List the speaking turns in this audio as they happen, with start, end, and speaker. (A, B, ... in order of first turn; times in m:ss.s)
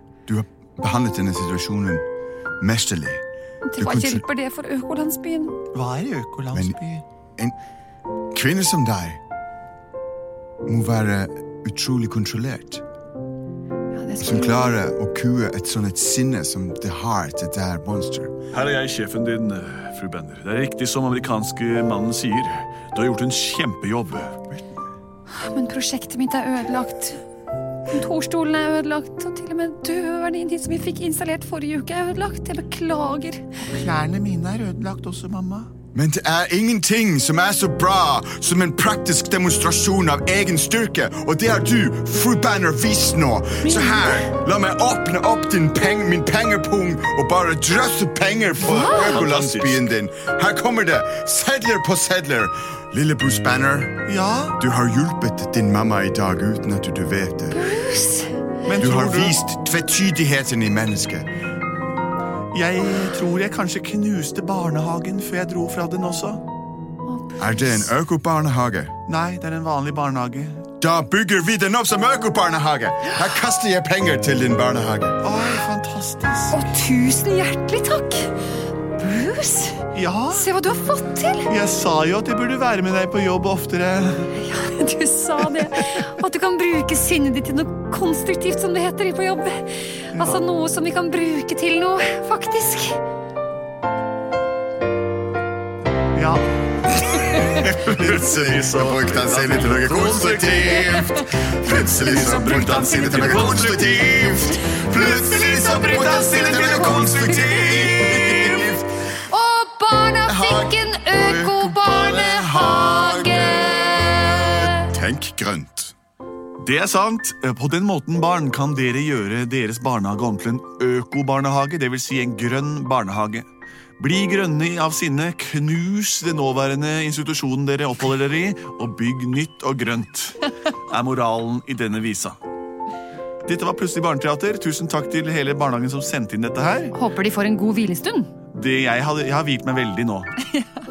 0:00.3-0:02.1 A
0:02.6-0:03.2 A
0:03.6-0:05.6 B
0:03.8-0:04.2 A
0:05.7-0:07.0 C
0:06.5-0:06.8 A
0:08.3-0:09.2 A
0:10.7-0:12.8 A
0:13.9-0:14.8 B
0:14.2-0:18.3 A
0:18.5-0:24.4 C
0:25.3-0:27.2 B
0:27.9-0:33.4 B
0:33.6-0:35.7 C
0:35.9-0:54.0 A
0:43.6-0:44.3 B
0:48.6-0:49.2 B
0:48.7-0:49.9 C
0:54.1-0:54.6 C
0:54.6-0:57.7 A
0:57.5-0:58.3 B
0:58.6-0:59.4 C
0:58.8-1:01.3 A
1:02.5-1:06.4 C
1:07.0-1:07.9 B
1:07.4-1:08.9 A
1:09.1-1:10.7 C
1:10.8-1:15.2 A
1:15.2-1:16.6 C
1:16.5-1:18.4 B
1:19.0-1:21.5 B
1:19.9-1:20.5 C
1:21.5-1:24.4 C
1:24.4-1:33.0 B
1:25.4-1:26.0 C
1:30.1-1:30.4 C
1:36.2-1:36.5 C
1:37.1-1:48.7 C
1:37.3-1:48.9 A
1:40.8-1:44.1 B
1:44.7-1:54.9 B
1:50.3-1:55.9 A
1:56.6-2:12.4 C
2:13.4-2:17.0 C
2:16.9-2:18.3 B
2:18.5-2:20.4 C